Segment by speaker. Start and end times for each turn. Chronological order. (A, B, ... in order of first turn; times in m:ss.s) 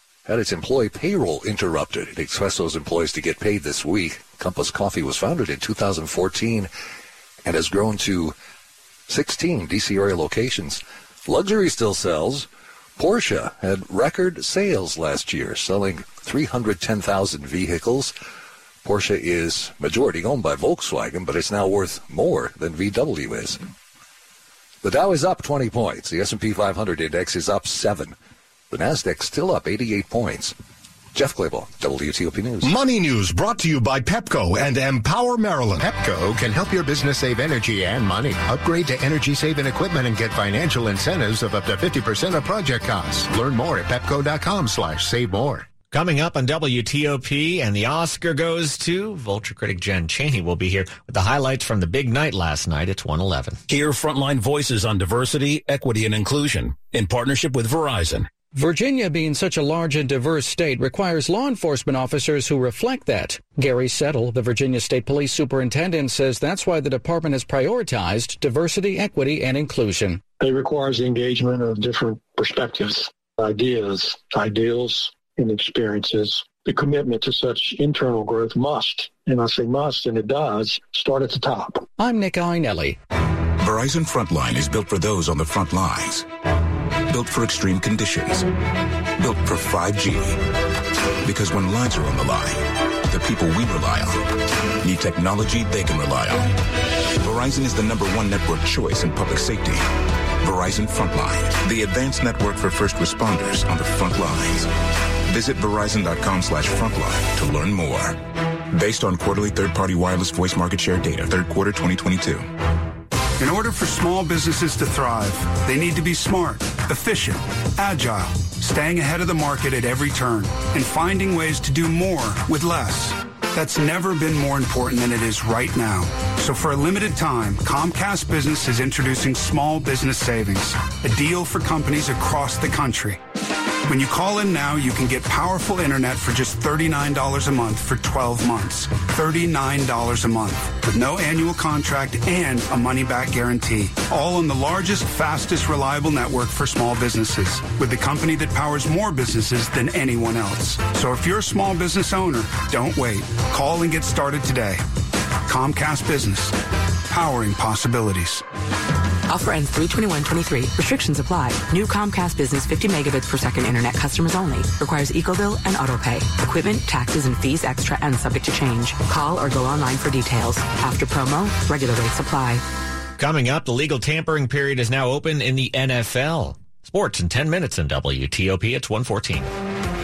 0:00.2-0:06.7 A
0:07.4-0:08.3 A
0:09.1-0:12.5 A
0:13.0-0:18.1 A
0:18.8-0:23.6 A
0:24.8-0:28.1 A
0:28.7-0:30.5 A
0:31.1-0:32.7 A
0:32.6-0:45.7 B
0:45.9-0:53.6 C
0:53.7-0:58.2 D
0:58.5-1:10.2 E
1:10.4-1:21.8 F
1:22.0-1:23.0 E
1:23.6-1:26.2 G
1:27.1-1:28.4 G
1:29.2-1:30.4 G
1:31.2-1:36.5 G
1:37.2-1:39.9 G
1:40.4-1:44.7 G
1:45.3-1:48.2 G
1:48.7-1:52.5 G
1:53.4-2:13.2 H
2:13.9-2:34.8 H
2:35.5-2:36.5 H
2:37.1-2:38.4 H
2:39.3-2:52.6 I
2:53.2-2:59.5 C